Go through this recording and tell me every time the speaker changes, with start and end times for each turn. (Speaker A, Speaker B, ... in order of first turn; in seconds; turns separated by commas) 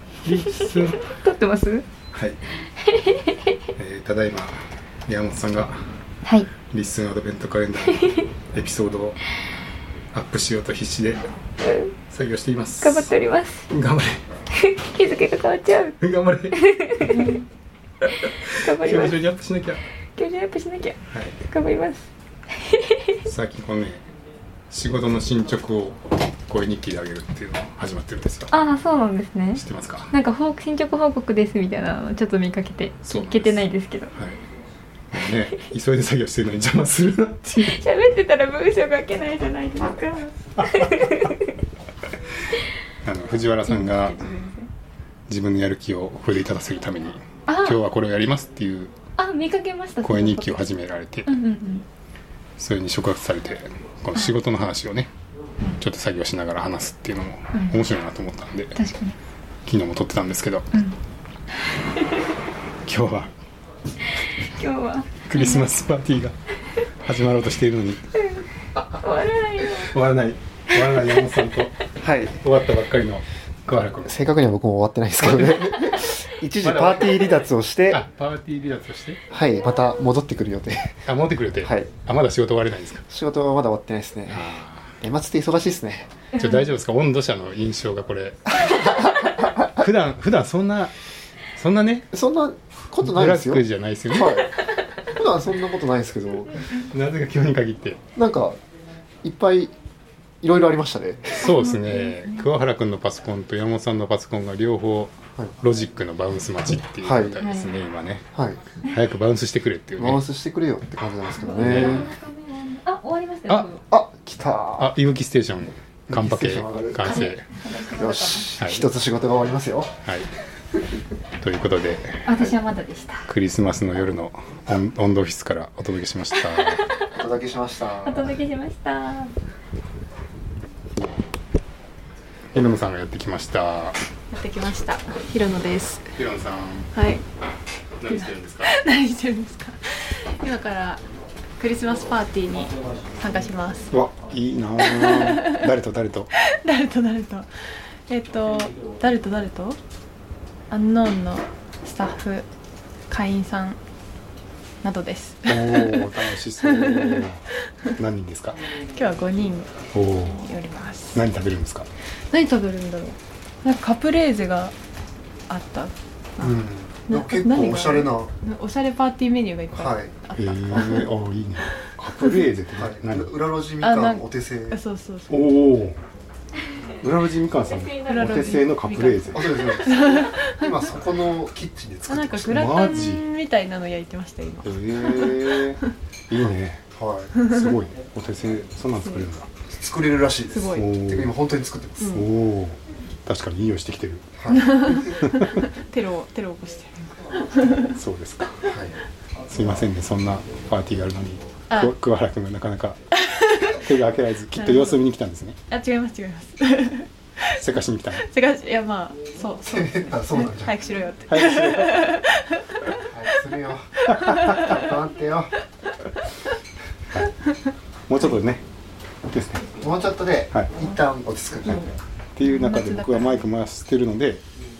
Speaker A: 0.2-1.1, Speaker B: 1.0-1.8, Speaker A: 2.1-2.4, Speaker B: 2.8-3.6, Speaker A: 3.7-5.8, Speaker B: 6.2-6.5, Speaker A: 6.7-9.2, Speaker A: 10.1-11.3, Speaker B: 11.6-11.9, Speaker A: 12.1-13.1, Speaker B: 12.8-13.7, Speaker A: 13.7-14.2, Speaker B: 14.6-15.9, Speaker A: 16.0-17.4, Speaker B: 16.6-17.4, Speaker A: 18.0-19.8, Speaker B: 18.5-19.1, Speaker B: 20.1-22.1, Speaker A: 21.1-21.4, Speaker B: 22.6-23.2, Speaker A: 23.2-24.0, Speaker A: 24.7-28.5, Speaker B: 28.5-34.1, Speaker A: 29.5-30.1, Speaker A: 33.0-34.4, Speaker A: 35.1-37.8, Speaker B: 37.6-41.4, Speaker A: 40.6-41.3, Speaker A: 43.0-44.2, Speaker C: 43.6-44.7, Speaker A: 45.3-48.9, Speaker B: 47.5-47.8, Speaker B: 49.2-50.7, Speaker A: 50.0-51.4, Speaker B: 51.2-51.8, Speaker A: 52.6-55.1, Speaker A: 55.8-58.8, Speaker B: 58.7-59.2, Speaker A: 59.6-60.7, Speaker A: 62.9-63.3, Speaker B: 64.5-65.6, Speaker A: 65.2-66.3, Speaker A: 67.0-68.1, Speaker B: 68.8-69.9, Speaker A: 69.8-74.2, Speaker B: 70.8-71.5, Speaker D: 72.0-72.4, Speaker D: 74.0-78.0, Speaker A: 75.2-79.2, Speaker D: 79.3-81.0, Speaker A: 81.0-83.0, Speaker D: 81.6-81.9, Speaker D: 83.1-86.1, Speaker A: 84.3-84.9, Speaker A: 86.3-90.9, Speaker A: 91.5-92.1, Speaker D: 92.1-96.5, Speaker A: 93.0-94.6, Speaker A: 96.8-98.0, Speaker D: 98.2-98.6, Speaker D: 99.2-99.7, Speaker D: 100.4-101.5, Speaker A: 101.4-108.3, Speaker B: 101.6-102.4, Speaker D: 107.0-107.4, Speaker B: 107.4-107.7, Speaker D: 108.3-108.6, Speaker A: 108.8-110.2, Speaker D: 110.0-112.1, Speaker B: 111.4-113.8, Speaker A: 111.6-112.1, Speaker D: 113.9-114.9, Speaker A: 114.8-117.5, Speaker D: 116.1-117.3, Speaker B: 117.0-118.5, Speaker D: 117.9-120.0, Speaker A: 118.6-118.8, Speaker A: 120.0-120.3, Speaker A: 121.4-122.3, Speaker B: 122.2-123.3, Speaker A: 123.3-126.9, Speaker D: 127.1-128.4, Speaker B: 128.0-129.3, Speaker A: 132.5-134.0, Speaker C: 134.3-136.1, Speaker A: 136.1-136.9, Speaker C: 136.9-137.2, Speaker A: 138.0-138.7, Speaker C: 138.1-141.0, Speaker C: 141.6-143.9, Speaker A: 143.9-146.3, Speaker C: 144.8-145.6, Speaker C: 146.4-147.5, Speaker C: 148.1-149.8, Speaker C: 150.7-152.4, Speaker C: 153.1-153.8, Speaker C: 154.8-157.2, Speaker A: 155.4-158.6, Speaker C: 158.9-161.2, Speaker A: 159.9-160.4, Speaker A: 161.1-161.9, Speaker C: 162.3-164.7, Speaker C: 165.5-166.5, Speaker D: 166.4-168.3, Speaker C: 167.1-171.1, Speaker D: 169.7-170.1, Speaker A: 170.3-173.3, Speaker D: 172.7-174.8, Speaker C: 173.8-175.4, Speaker A: 175.3-176.0, Speaker A: 177.0-179.6, Speaker B: 177.7-178.7, Speaker C: 177.9-180.7, Speaker D: 179.3-182.6, Speaker C: 182.1-185.8, Speaker A: 182.4-183.2, Speaker A: 184.6-186.8, Speaker D: 186.4-187.3, Speaker A: 187.4-189.5, Speaker D: 189.7-192.1, Speaker C: 190.5-190.9, Speaker A: 190.7-191.3, Speaker A: 192.1-194.3, Speaker D: 194.4-195.0, Speaker C: 194.5-197.8, Speaker A: 195.1-195.6, Speaker A: 197.8-198.7, Speaker D: 198.6-199.0, Speaker A: 199.5-203.0, Speaker C: 203.2-203.9, Speaker A: 203.6-205.6, Speaker C: 204.6-205.0, Speaker C: 205.7-207.1, Speaker A: 207.5-208.2, Speaker C: 208.1-213.3, Speaker D: 209.6-210.7, Speaker A: 211.3-212.1, Speaker D: 213.1-215.5, Speaker C: 214.0-214.9, Speaker A: 214.1-214.8, Speaker A: 218.1-218.6, Speaker A: 219.3-219.7, Speaker D: 219.8-221.9, Speaker A: 222.3-224.4, Speaker C: 222.4-223.4